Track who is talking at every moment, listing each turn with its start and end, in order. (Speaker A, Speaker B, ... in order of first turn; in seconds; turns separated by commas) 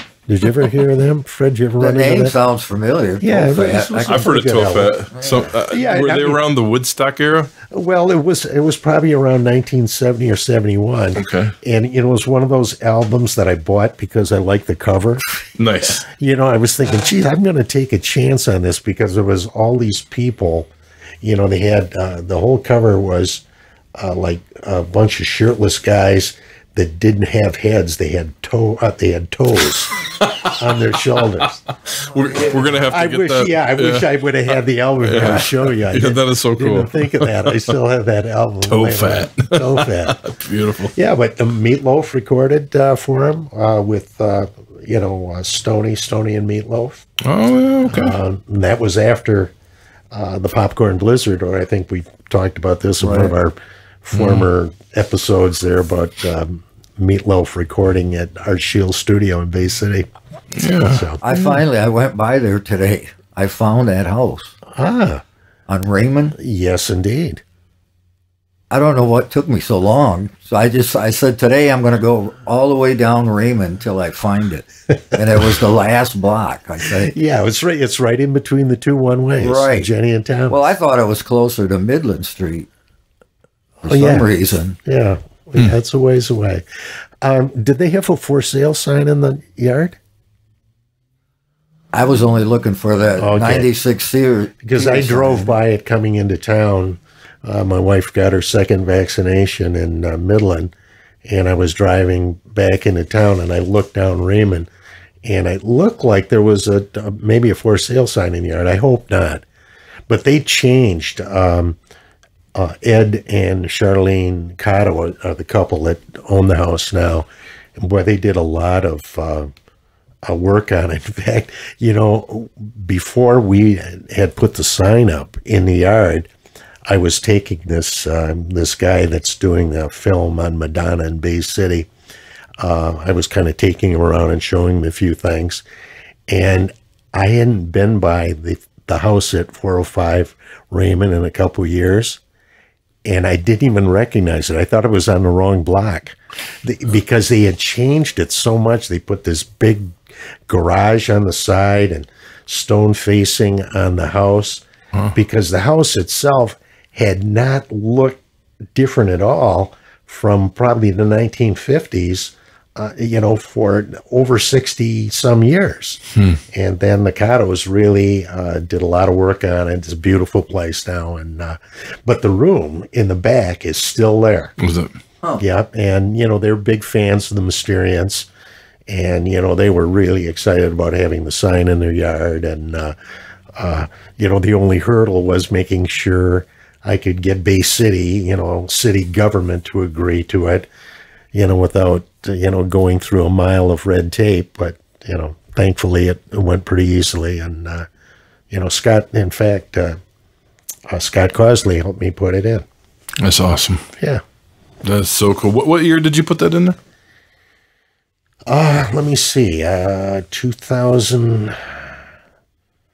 Speaker A: 0.3-2.4, Speaker B: 1.8-4.3, Speaker A: 3.2-5.0, Speaker C: 4.1-7.5, Speaker B: 5.1-5.5, Speaker A: 5.7-6.4, Speaker A: 7.7-15.2, Speaker C: 11.2-11.5, Speaker C: 15.6-16.1, Speaker A: 16.0-20.7, Speaker A: 21.2-23.4, Speaker A: 24.0-29.9, Speaker C: 30.2-30.6, Speaker A: 30.5-31.6, Speaker C: 31.9-34.1, Speaker A: 32.2-40.2, Speaker C: 35.0-37.8, Speaker C: 38.6-40.9, Speaker A: 41.0-47.0, Speaker C: 47.2-48.2, Speaker A: 47.9-49.5, Speaker A: 50.1-60.1, Speaker B: 53.0-53.3, Speaker C: 54.1-54.5, Speaker C: 60.6-61.6, Speaker A: 60.7-61.2, Speaker B: 61.2-64.5, Speaker A: 64.7-65.2, Speaker B: 65.7-66.4, Speaker A: 66.4-67.4, Speaker B: 68.7-77.1, Speaker A: 77.0-80.7, Speaker B: 79.4-79.9, Speaker B: 80.5-82.7, Speaker A: 83.8-84.3, Speaker B: 83.9-84.8, Speaker A: 84.8-86.7, Speaker A: 87.2-90.0, Speaker B: 91.9-95.5, Speaker A: 93.2-93.7, Speaker A: 94.6-100.7, Speaker A: 101.2-104.7, Speaker A: 105.2-109.5, Speaker A: 110.1-111.8, Speaker A: 112.5-119.5, Speaker A: 120.3-126.3, Speaker A: 126.9-131.9, Speaker A: 132.6-135.6, Speaker A: 136.3-142.2, Speaker A: 143.1-158.2, Speaker A: 158.8-174.5, Speaker C: 166.2-166.4, Speaker C: 174.6-174.9, Speaker A: 175.4-178.3, Speaker A: 178.9-182.9, Speaker A: 183.6-190.7, Speaker A: 191.3-197.9, Speaker A: 198.5-200.0, Speaker A: 200.9-202.7, Speaker C: 203.2-203.9, Speaker C: 204.8-206.8, Speaker A: 208.5-211.8